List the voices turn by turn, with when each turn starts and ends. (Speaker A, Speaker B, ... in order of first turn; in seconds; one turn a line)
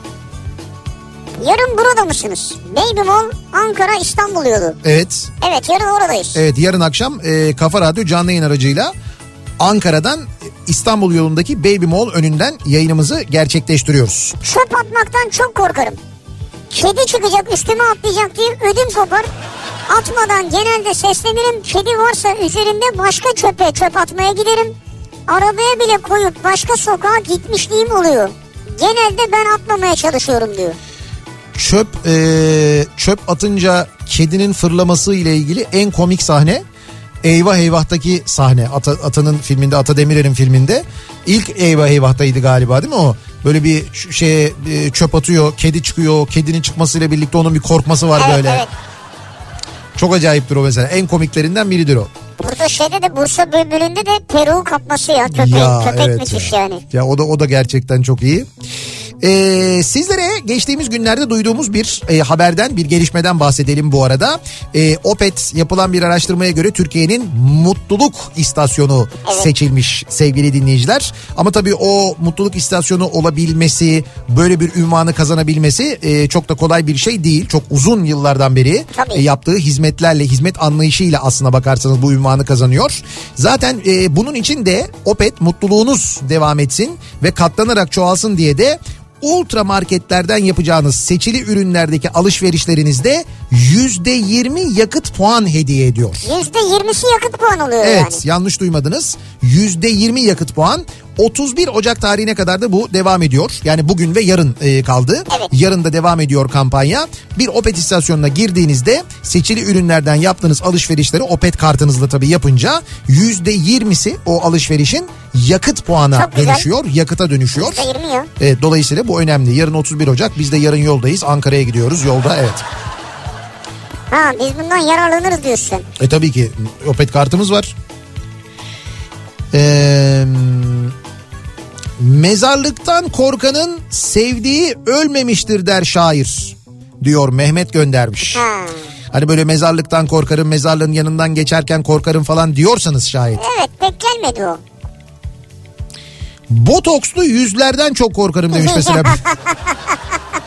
Speaker A: 1.4-4.8
Speaker B: 4.8-5.3
Speaker A: 5.4-6.4
Speaker B: 6.3-8.9
Speaker B: 9.6-14.3
Speaker A: 14.4-16.0
Speaker A: 16.7-19.3
Speaker A: 19.9-24.8
Speaker A: 25.3-30.8
Speaker B: 31.5-36.6
Speaker B: 37.2-48.6
Speaker A: 48.1-48.7
Speaker B: 49.9-52.1
Speaker A: 52.4-56.8
Speaker B: 55.3-58.5
Speaker B: 59.2-96.2
Speaker A: 78.9-79.2
Speaker A: 96.2-98.2
Speaker B: 97.8-117.9
Speaker A: 116.1-116.7
Speaker A: 117.5-118.3
Speaker B: 118.4-122.6
Speaker A: 124.1-125.9
Speaker B: 126.0-127.7
Speaker B: 129.5-130.9
Speaker B: 132.0-138.4
Speaker A: 138.3-138.8
Speaker B: 139.1-143.4
Speaker A: 143.3-144.6
Speaker B: 146.5-149.2
Speaker A: 148.5-149.7